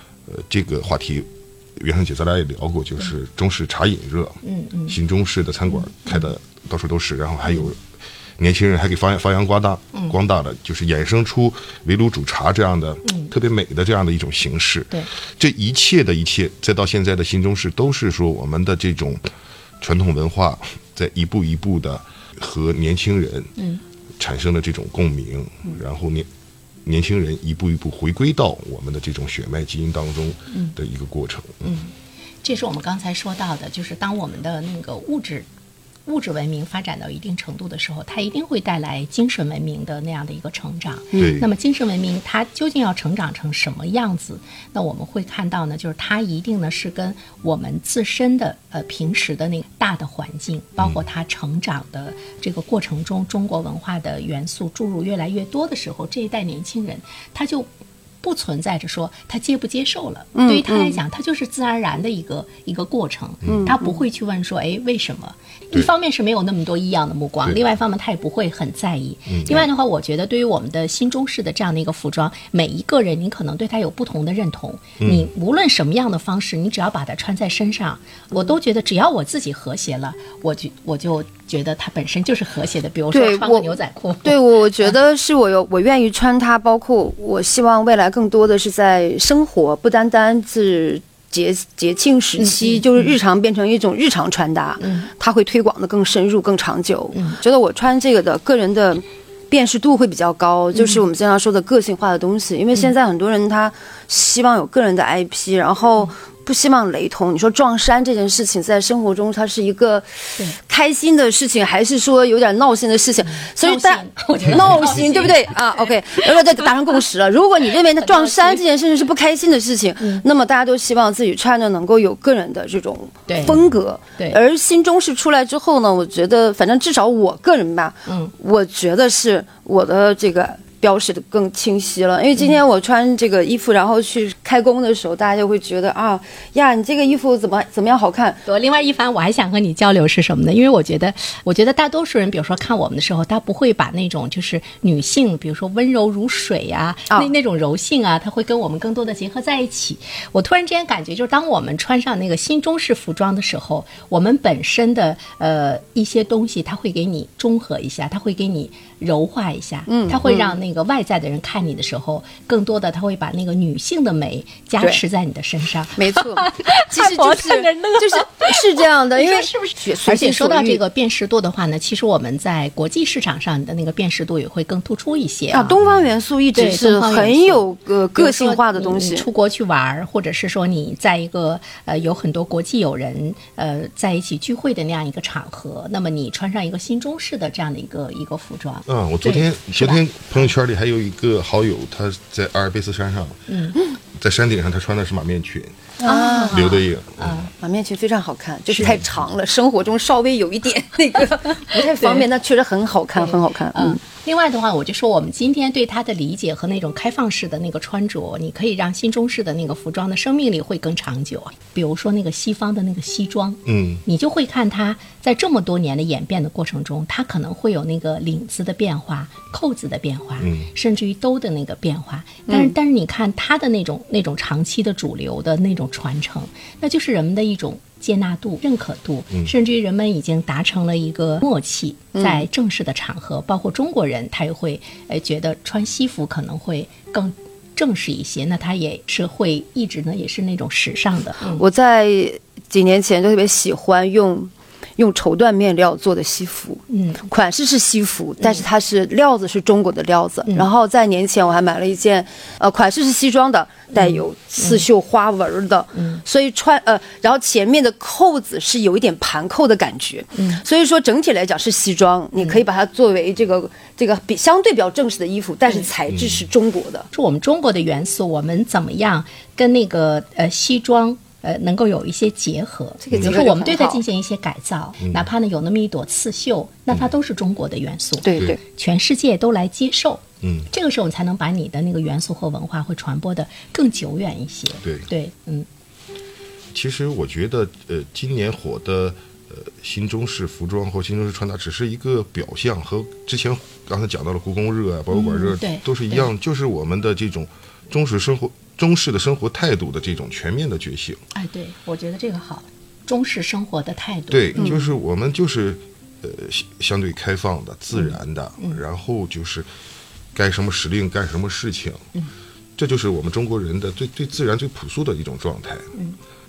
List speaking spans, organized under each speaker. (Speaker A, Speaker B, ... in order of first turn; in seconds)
Speaker A: 0.3-7.8, 8.4-19.2, 19.8-23.6, 24.2-26.3, 26.8-31.7, 41.1-41.5, 63.4-63.7, 69.3-69.7, 75.0-75.3, 188.9-195.9, 196.5-197.4, 213.7-214.0, 220.4-220.7, 266.1-266.4, 280.4-280.7, 286.7-301.2, 304.3-309.7, 310.3-312.0, 312.8-315.9
Speaker B: 4.4-5.0, 13.1-13.3, 31.6-31.9, 32.4-35.5, 36.0-57.7, 58.2-84.9, 92.4-93.1, 94.8-95.1, 97.1-97.4, 100.8-101.0, 113.2-116.7, 118.0-118.6, 123.3-123.6, 138.4-175.8, 176.5-190.0, 193.5-193.8, 196.0-197.5, 198.7-198.9, 201.8-202.2, 203.2-241.6, 246.9-247.2, 253.9-254.8, 256.0-256.2, 260.4-260.6, 267.1-285.7, 295.1-296.2, 301.3-304.8, 308.0-308.8
Speaker C: 60.3-61.0, 63.5-63.9, 83.1-110.1, 110.6-138.4, 159.9-160.5, 166.0-170.8, 175.5-179.3, 196.0-196.8, 197.5-204.0, 222.5-222.7, 232.1-232.4, 241.4-267.1, 273.0-274.0, 278.2-278.6